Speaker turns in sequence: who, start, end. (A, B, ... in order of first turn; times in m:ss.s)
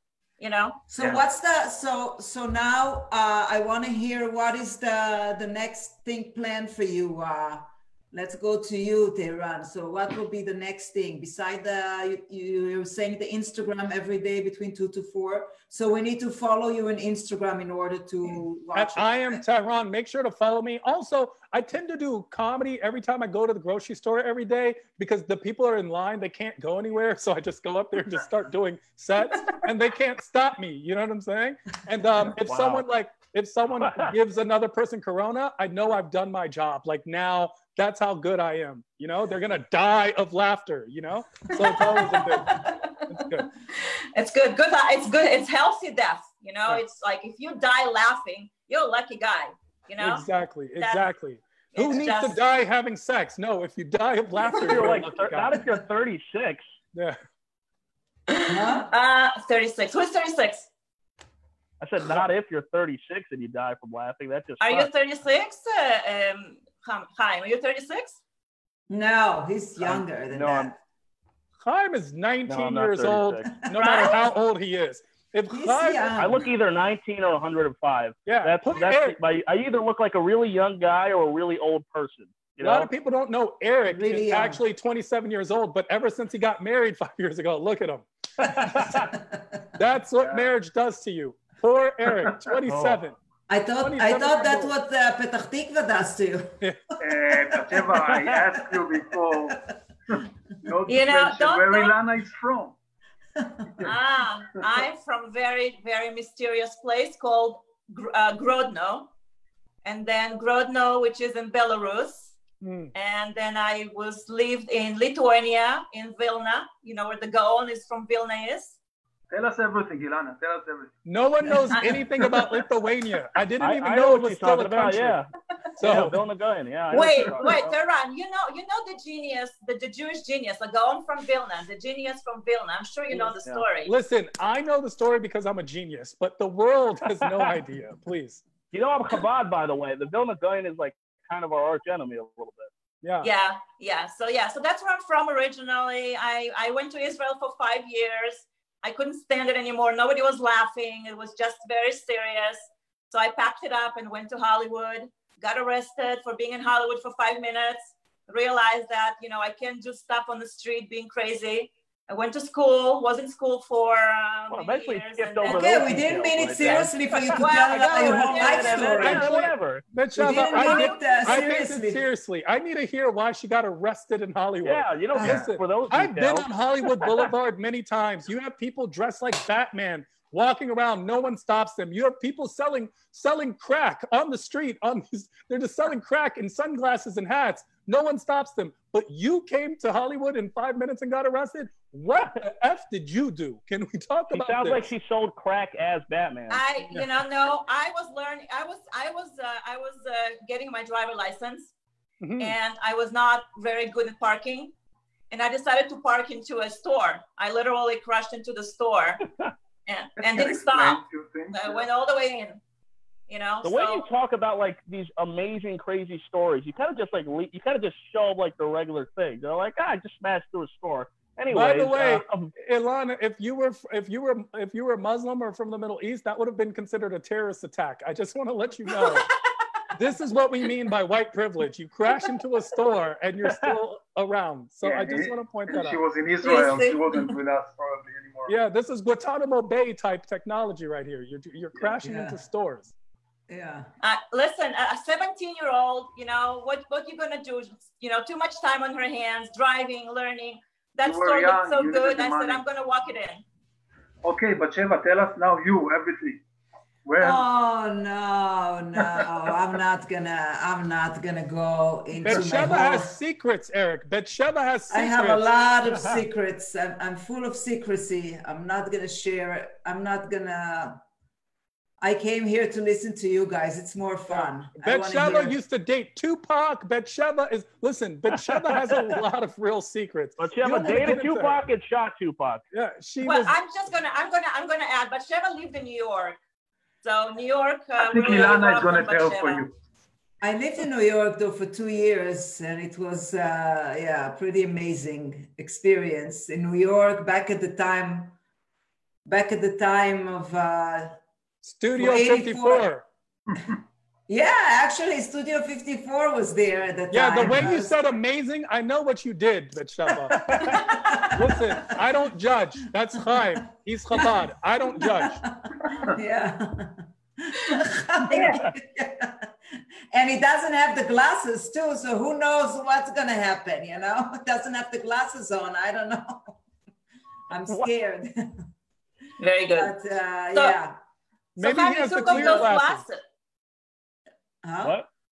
0:00.4-0:00.8 A
0:00.9-0:19.4 B
0:01.0-0:01.2 C
0:18.7-0:43.5 D
0:32.4-0:32.8 E
0:33.8-0:34.1 E
0:41.5-0:50.3 A
0:50.0-0:55.7 D
0:50.8-0:51.1 A
0:51.7-0:52.4 A
0:54.6-0:56.6 E
0:58.3-1:00.7 A
0:58.5-0:58.9 B
1:01.8-1:04.9 E
1:04.6-1:08.2 A
1:08.9-1:10.8 B
1:09.8-1:10.7 E
1:11.6-1:16.2 D
1:12.5-1:13.5 E
1:13.7-1:14.2 A
1:15.5-1:16.5 B
1:16.2-1:22.9 E
1:18.2-1:19.2 D
1:22.6-1:29.1 D
1:23.9-1:24.6 B
1:28.4-1:29.1 E
1:29.8-1:33.1 D
1:30.2-1:30.5 C
1:32.2-1:32.5 C
1:32.7-1:33.0 E
1:33.5-1:36.6 B
1:33.8-1:34.7 D
1:36.6-1:36.9 D
1:37.0-1:42.7 C
1:40.9-1:41.9 A
1:43.4-1:43.9 B
1:43.8-1:49.1 A
1:49.8-1:52.4 A
1:52.6-1:52.9 D
1:52.9-1:58.8 A
1:59.3-2:01.0 C
2:01.0-2:05.2 D
2:01.7-2:02.5 A
2:03.6-2:05.3 E
2:05.8-2:06.2 D
2:05.8-2:07.7 E
2:06.9-2:13.9 A
2:13.1-2:13.6 E
2:13.8-2:18.4 D
2:17.2-2:17.6 E
2:18.7-2:22.7 E
2:23.0-2:23.3 D
2:23.2-2:45.7 A
2:44.5-2:46.9 E
2:45.4-2:49.4 B
2:46.6-2:49.3 A
2:47.8-2:49.8 E
2:49.0-3:14.9 D
2:50.1-2:52.0 B
2:50.2-2:51.4 A
2:54.6-2:57.3 E
2:55.2-2:55.5 C
3:14.3-3:16.6 E
3:16.5-3:21.7 A
3:22.2-3:22.6 D
3:22.4-3:24.7 A
3:25.3-3:29.2 A
3:29.8-3:31.0 A
3:30.2-3:31.8 C
3:31.5-3:32.6 A
3:33.3-3:34.0 A
3:33.6-3:42.5 E
3:41.5-3:49.3 D
3:48.9-3:49.2 A
3:49.9-3:56.0 D
3:53.4-3:53.7 E
3:54.8-3:58.6 C
3:56.4-3:57.3 A
3:58.5-4:02.9 D
4:02.0-4:02.4 B
4:03.5-4:03.9 B
4:04.0-4:13.4 A
4:11.0-4:12.6 C
4:14.2-4:16.4 C
4:17.0-4:17.4 C
4:17.2-4:23.1 B
4:19.0-4:19.2 C
4:22.2-4:25.4 D
4:24.9-4:31.0 B
4:32.0-4:35.6 B
4:34.3-4:41.6 D
4:38.3-4:39.2 E
4:40.4-4:42.6 E
4:42.7-4:43.6 D
4:43.2-4:46.4 A
4:47.0-4:49.7 A
4:48.0-4:49.7 C
4:50.4-4:58.3 B
4:59.2-5:01.2 B
5:01.6-5:03.0 D
5:02.0-5:02.9 B
5:03.5-5:03.8 C
5:04.3-5:07.9 B
5:07.1-5:10.8 D
5:10.3-5:10.8 E
5:10.7-5:11.9 B
5:11.3-5:15.4 D
5:14.9-5:19.5 B
5:18.3-5:18.6 A
5:20.1-5:26.6 B
5:27.5-5:28.5 B
5:29.4-5:29.9 A
5:29.7-5:31.0 B
5:31.6-5:33.0 D
5:31.6-5:33.2 A
5:32.3-5:32.6 B
5:34.6-5:35.0 B
5:34.8-5:35.1 E